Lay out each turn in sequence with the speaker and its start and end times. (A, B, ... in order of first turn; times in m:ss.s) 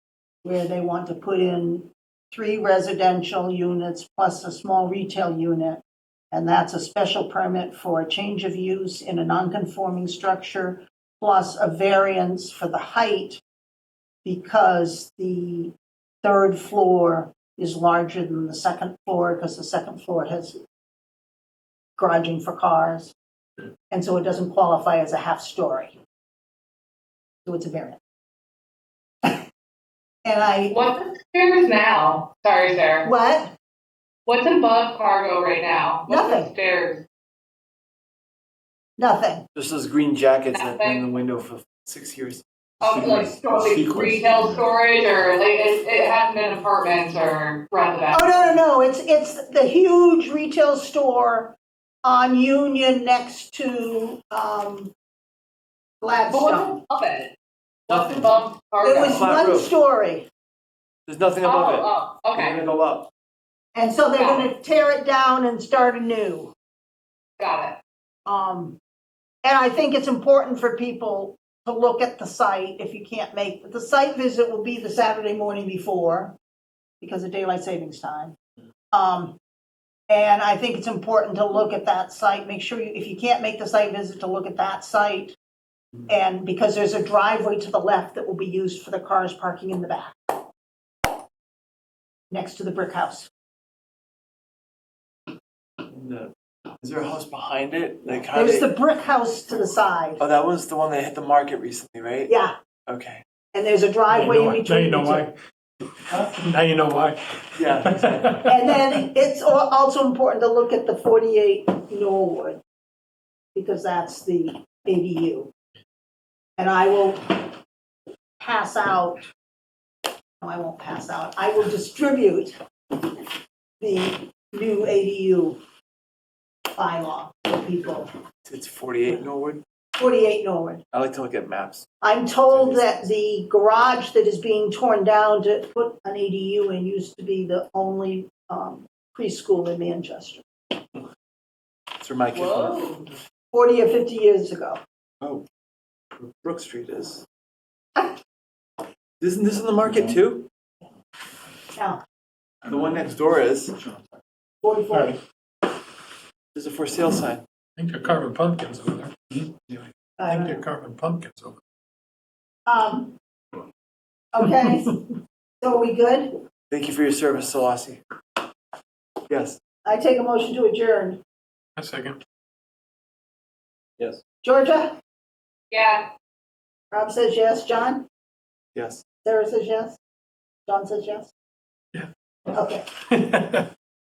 0:00.4-0:13.4 A
0:14.2-0:20.6 A
0:22.0-0:23.1 A
0:23.9-0:26.0 A
0:27.4-0:28.0 A
0:30.2-0:30.9 A
0:30.7-0:33.1 B
0:33.0-0:33.5 A
0:34.3-0:37.0 B
0:36.1-0:36.5 A
0:39.0-0:39.4 A
0:39.6-0:42.4 C
0:40.5-0:41.0 B
0:42.8-0:48.5 B
0:42.8-0:44.7 D
0:48.1-0:54.9 A
0:56.0-0:56.8 A
0:56.3-0:57.3 B
0:57.9-0:59.2 B
0:57.9-0:58.3 C
0:58.8-1:00.3 A
0:59.0-0:59.7 C
1:01.1-1:03.1 C
1:01.4-1:02.6 B
1:03.8-1:06.5 A
1:04.2-1:04.5 B
1:07.4-1:07.8 B
1:08.3-1:08.8 A
1:09.4-1:16.4 A
1:17.0-1:18.4 A
1:18.9-1:19.4 A
1:20.1-1:25.4 A
1:26.1-1:30.2 A
1:32.3-1:33.3 A
1:35.9-1:38.7 C
1:38.3-1:40.2 A
1:40.2-1:42.3 C
1:42.3-1:42.5 A
1:42.9-1:43.2 C
1:43.5-1:45.3 A
1:44.1-1:45.3 D
1:46.3-1:48.5 D
1:47.6-1:48.4 C
1:48.5-1:52.6 A
1:53.6-1:55.5 A
1:56.6-1:57.5 A
1:58.4-1:59.3 A
2:00.4-2:02.6 A
2:03.8-2:05.6 A
2:06.8-2:08.1 A
2:08.4-2:09.6 C
2:10.0-2:10.8 A
2:10.9-2:11.9 C
2:12.0-2:20.4 A
2:22.0-2:22.9 C
2:22.3-2:23.0 B
2:23.5-2:24.8 A
2:26.1-2:27.3 C
2:29.2-2:30.5 C
2:31.8-2:32.0 A
2:32.6-2:33.9 C
2:34.6-2:35.2 A
2:34.9-2:35.2 D
2:36.6-2:37.4 C
2:37.8-2:41.6 D
2:40.2-2:40.6 A
2:42.7-2:43.2 A
2:44.3-2:45.0 A
2:45.6-2:46.3 A
2:46.7-2:48.0 C
2:49.3-2:49.6 C
2:49.8-2:51.2 A
2:51.8-2:52.2 D
2:54.4-2:55.0 A
2:55.7-2:56.1 B
2:56.9-2:58.1 A
2:58.8-2:59.0 C
2:59.2-3:00.0 A
3:00.7-3:01.3 A
3:02.5-3:02.9 A